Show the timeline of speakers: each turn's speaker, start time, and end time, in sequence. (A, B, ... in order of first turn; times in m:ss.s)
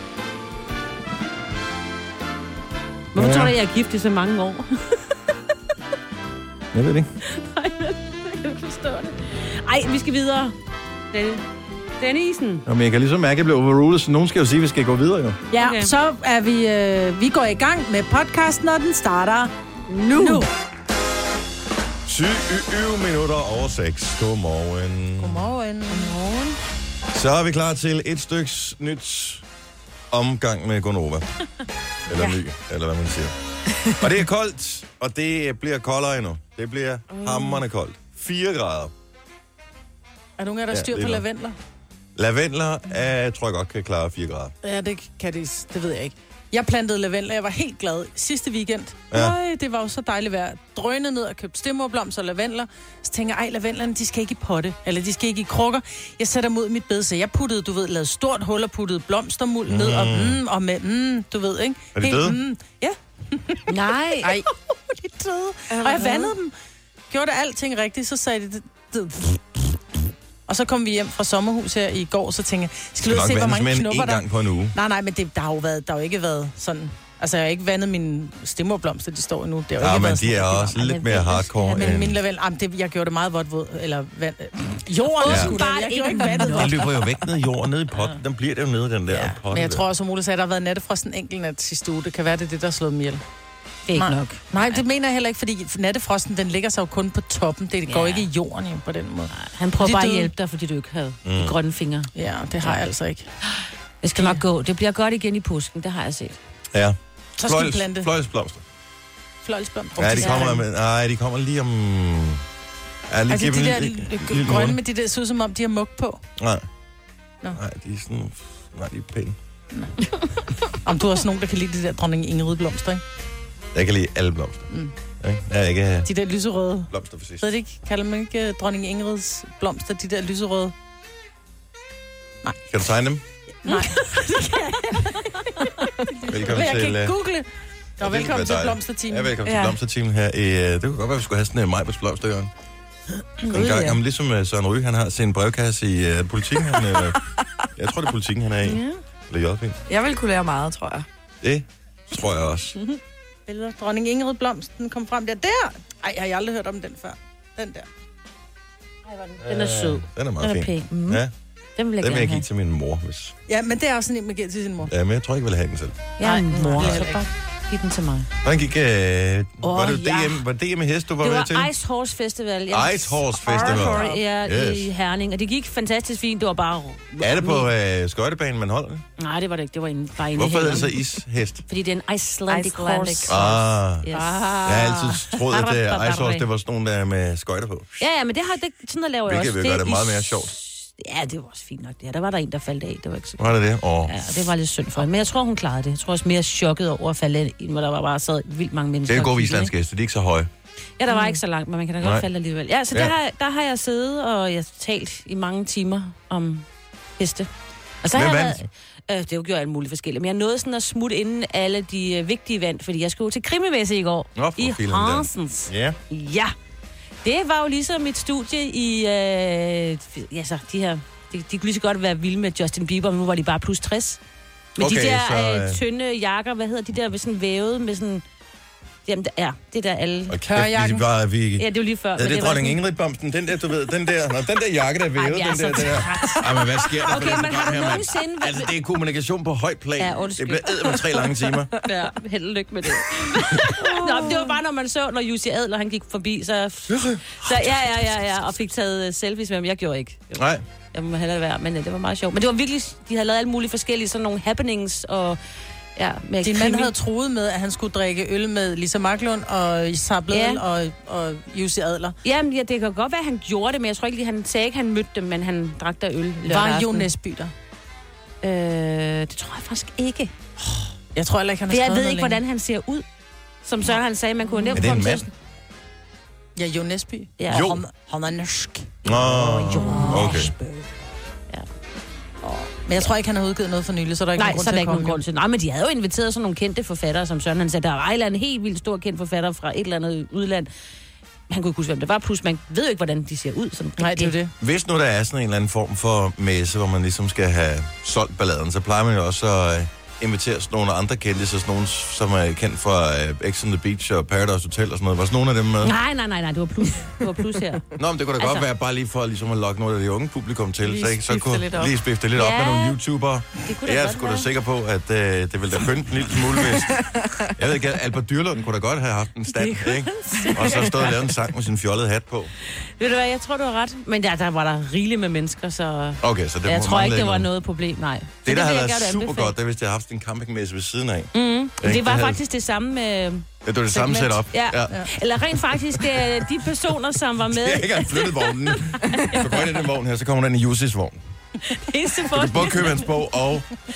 0:03.1-0:05.4 A
0:03.2-0:03.5 B
0:06.7-0:07.1 B
0:07.2-0:10.6 A
0:11.1-0:11.4 A
0:12.0-0:12.6 A
0:12.7-0:15.4 B
0:15.5-0:19.5 C
0:15.5-0:15.9 A
0:19.9-0:20.5 D
0:20.1-0:20.5 C
0:22.1-0:25.4 B
0:25.2-0:26.2 C
0:25.9-0:26.6 A
0:27.1-0:29.4 B
0:30.1-0:31.3 B
0:32.1-0:33.3 B
0:33.9-0:38.9 B
0:37.1-0:37.6 A
0:40.4-0:41.6 C
0:40.7-0:41.2 B
0:42.2-0:44.5 B
0:44.6-1:03.7 C
0:59.7-1:00.4 B
1:02.0-1:02.4 B
1:03.7-1:04.4 A
1:04.2-1:06.5 C
1:05.7-1:06.3 D
1:07.1-1:09.8 C
1:10.5-1:14.2 C
1:13.0-1:14.8 B
1:14.7-1:26.8 C
1:19.8-1:22.2 B
1:21.1-1:21.8 A
1:25.2-1:27.0 A
1:25.2-1:25.5 B
1:26.5-1:29.8 B
1:29.1-1:33.2 C
1:33.9-1:34.8 A
1:34.0-1:40.3 C
1:37.9-1:38.3 A
1:39.3-1:42.1 A
1:41.2-1:41.6 B
1:42.2-1:43.2 C
1:43.6-1:46.4 A
1:46.7-1:48.6 B
1:47.4-1:48.1 C
1:49.4-1:50.6 C
1:50.0-1:52.4 B
1:50.1-1:50.6 A
1:53.1-1:54.8 B
1:53.3-1:56.2 C
1:56.4-1:56.6 B
1:57.5-1:59.4 B
2:00.8-2:03.0 C
2:03.7-2:06.1 B
2:06.1-2:10.7 C
2:06.9-2:07.5 B
2:12.7-2:13.2 B
2:13.6-2:15.7 C
2:13.7-2:14.4 A
2:15.0-2:15.5 A
2:16.3-2:17.2 B
2:16.3-2:17.5 C
2:18.0-2:19.3 C
2:18.0-2:22.5 B
2:19.4-2:19.8 D
2:23.5-2:24.0 A
2:23.5-2:27.2 B
2:27.8-2:29.8 B
2:28.6-2:29.0 A
2:29.9-2:31.1 D
2:31.4-2:32.8 B
2:33.5-2:37.9 C
2:39.1-2:41.1 A
2:39.5-2:41.3 B
2:41.8-2:42.4 A
2:42.0-2:43.4 B
2:43.5-2:44.9 C
2:44.9-2:46.1 B
2:46.2-2:48.3 A
2:46.2-2:47.2 C
2:48.4-2:51.7 B
2:49.6-2:50.5 A
2:51.2-2:57.7 A
2:52.7-2:54.9 B
2:53.5-2:54.2 D
2:57.2-2:59.0 B
2:59.2-3:01.0 A
3:00.4-3:01.6 B
3:01.7-3:06.5 A
3:02.5-3:03.6 D
3:03.3-3:04.1 B
3:04.6-3:08.0 B
3:08.0-3:13.5 A
3:09.3-3:10.6 B
3:13.4-3:14.2 B
3:14.1-3:19.7 A
3:19.1-3:20.5 B
3:21.0-3:26.7 A
3:27.2-3:27.5 A
3:28.0-3:36.6 A
3:28.1-3:28.6 B
3:34.4-3:36.0 B
3:37.2-3:44.2 A
3:44.8-3:45.8 B
3:44.8-3:48.2 A
3:49.1-3:50.4 A
3:50.3-4:01.8 B
3:50.5-3:51.1 C
3:51.6-3:52.8 A
3:55.2-3:58.7 A
4:00.0-4:01.2 A
4:01.8-4:10.4 A
4:03.8-4:04.6 D
4:06.9-4:08.3 B
4:10.4-4:10.6 B
4:10.9-4:15.4 A
4:16.0-4:16.9 A
4:16.4-4:22.2 C
4:20.3-4:20.6 A
4:22.2-4:27.1 A
4:26.5-4:27.5 C
4:28.4-4:30.3 A
4:31.2-4:32.4 C
4:31.7-4:33.0 A
4:33.6-4:35.3 A
4:34.7-4:35.3 B
4:36.6-4:40.9 C
4:37.4-4:37.8 A
4:37.5-4:37.8 B
4:39.0-4:40.5 B
4:39.1-4:40.5 A
4:42.4-4:45.2 C
4:44.4-4:50.7 A
4:51.5-4:54.4 A
4:54.0-4:54.5 C
4:54.6-5:06.0 B
5:05.8-5:07.8 A
5:08.0-5:22.5 B
5:08.4-5:08.7 A
5:10.8-5:11.9 D
5:12.4-5:13.0 A
5:13.6-5:14.5 A
5:19.5-5:21.0 A
5:20.7-5:21.1 D
5:22.8-5:29.6 A
5:26.2-5:27.5 B
5:28.4-5:32.4 B
5:31.3-5:39.8 A
5:33.6-5:35.0 B
5:35.7-5:36.0 B
5:37.5-5:41.2 B
5:41.6-5:43.2 A
5:42.3-5:43.7 B